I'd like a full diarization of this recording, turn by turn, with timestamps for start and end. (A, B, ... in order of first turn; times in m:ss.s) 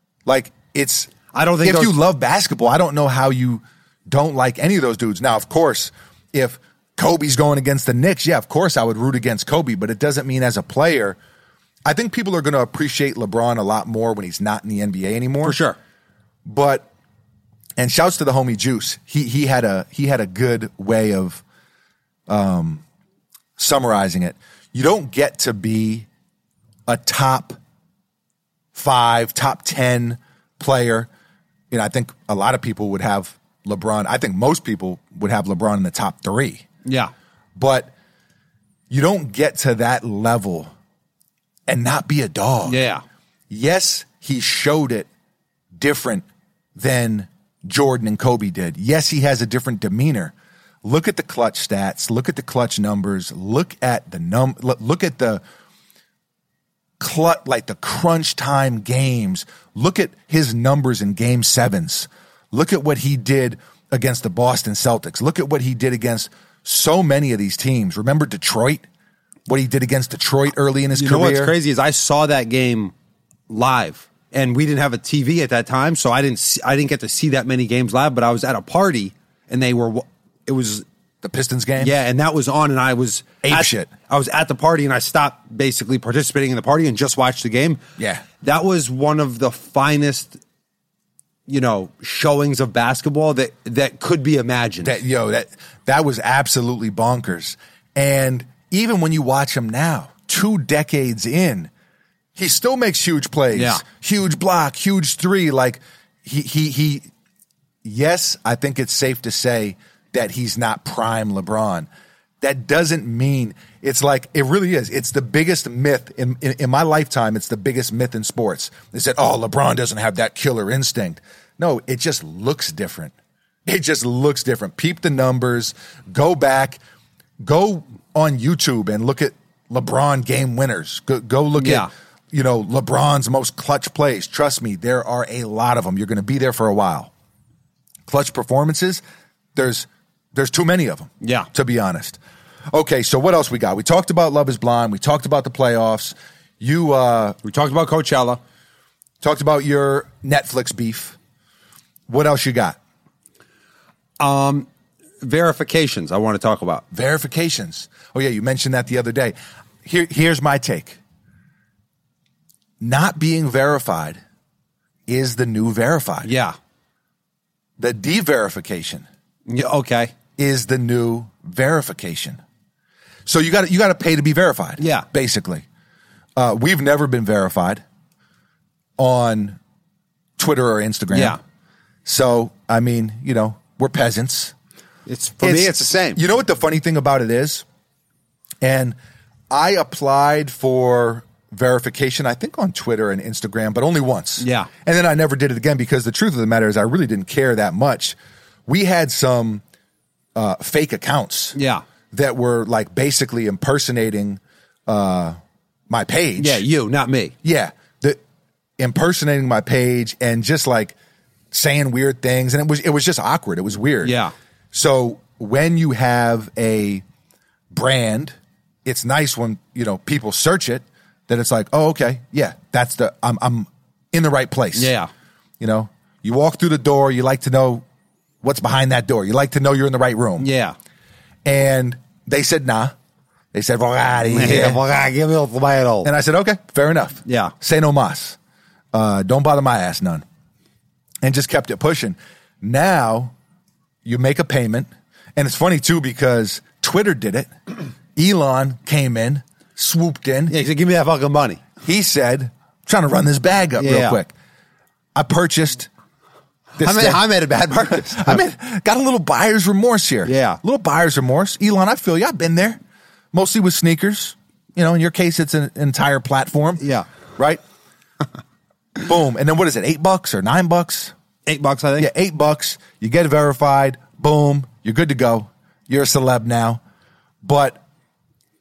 0:00.3-0:11.2 A
0:01.3-0:02.0 B
0:11.8-0:15.6 A
0:15.4-0:15.8 B
0:16.4-0:16.9 A
0:17.8-0:21.4 A
0:22.3-0:22.8 A
0:23.6-0:26.1 A
0:26.9-0:27.6 A
0:28.7-0:31.1 A
0:31.7-0:36.7 A
0:36.8-0:37.1 B
0:37.6-0:37.9 A
0:38.9-0:40.7 A
0:41.7-0:42.8 A
0:42.6-0:43.0 B
0:43.5-0:45.1 A
0:45.8-0:46.2 A
0:46.8-0:50.3 A
0:50.8-0:55.4 A
0:57.0-1:08.9 A
1:09.5-1:11.5 A
1:11.0-1:12.9 B
1:13.5-1:20.8 B
1:21.2-1:22.0 A
1:21.8-1:27.8 B
1:23.4-1:23.9 A
1:28.0-1:28.2 A
1:28.4-1:30.4 B
1:31.5-1:35.0 B
1:34.8-1:41.7 A
1:42.4-1:47.1 A
1:43.5-1:43.8 B
1:47.8-1:51.9 A
1:52.4-2:03.1 A
2:03.7-2:06.8 A
2:07.4-2:17.1 A
2:11.6-2:11.9 B
2:18.1-2:19.0 A
2:19.6-2:22.2 A
2:21.2-2:21.5 B
2:22.7-2:27.4 A
2:27.4-2:28.4 B
2:29.2-2:31.2 A
2:32.1-2:32.8 A
2:34.2-2:34.7 B
2:35.2-2:36.8 B
2:36.9-2:41.0 A
2:42.8-2:44.2 A
2:45.1-2:46.3 A
2:46.2-2:46.6 B
2:47.8-2:49.1 A
2:49.5-2:50.1 B
2:50.4-2:52.4 A
2:53.3-2:55.6 A
2:54.8-2:55.1 B
2:56.4-2:57.8 A
2:59.0-2:59.6 A
3:00.4-3:01.4 A
3:01.1-3:01.4 B
3:02.0-3:04.5 A
3:05.1-3:06.2 B
3:05.4-3:07.6 A
3:08.6-3:09.0 A
3:09.5-3:18.2 A
3:14.4-3:14.7 B
3:18.7-3:19.6 A
3:20.4-3:21.6 A
3:21.6-3:21.8 B
3:22.1-3:25.4 A
3:25.9-3:26.6 A
3:26.4-3:27.4 B
3:27.4-3:28.2 A
3:28.8-3:31.0 A
3:31.5-3:34.2 A
3:34.0-3:34.3 B
3:34.7-3:37.0 A
3:37.7-3:44.9 A
3:44.8-3:45.1 B
3:45.6-3:47.8 A
3:48.4-3:50.5 A
3:50.4-3:50.8 B
3:51.4-3:52.9 A
3:53.5-3:54.8 A
3:54.3-3:56.1 B
3:56.0-3:58.4 A
3:57.3-3:57.5 B
3:58.9-4:00.2 A
4:01.2-4:03.3 A
4:04.0-4:07.5 A
4:08.2-4:10.6 A
4:10.5-4:11.6 B
4:11.8-4:14.3 A
4:13.8-4:14.2 B
4:15.2-4:15.9 A
4:16.8-4:17.2 A
4:16.8-4:18.4 B
4:17.9-4:22.8 A
4:20.2-4:20.6 B
4:23.3-4:26.8 A
4:26.8-4:27.1 B
4:29.0-4:31.1 A
4:31.5-4:32.1 B
4:32.0-4:36.8 A
4:37.4-4:37.8 A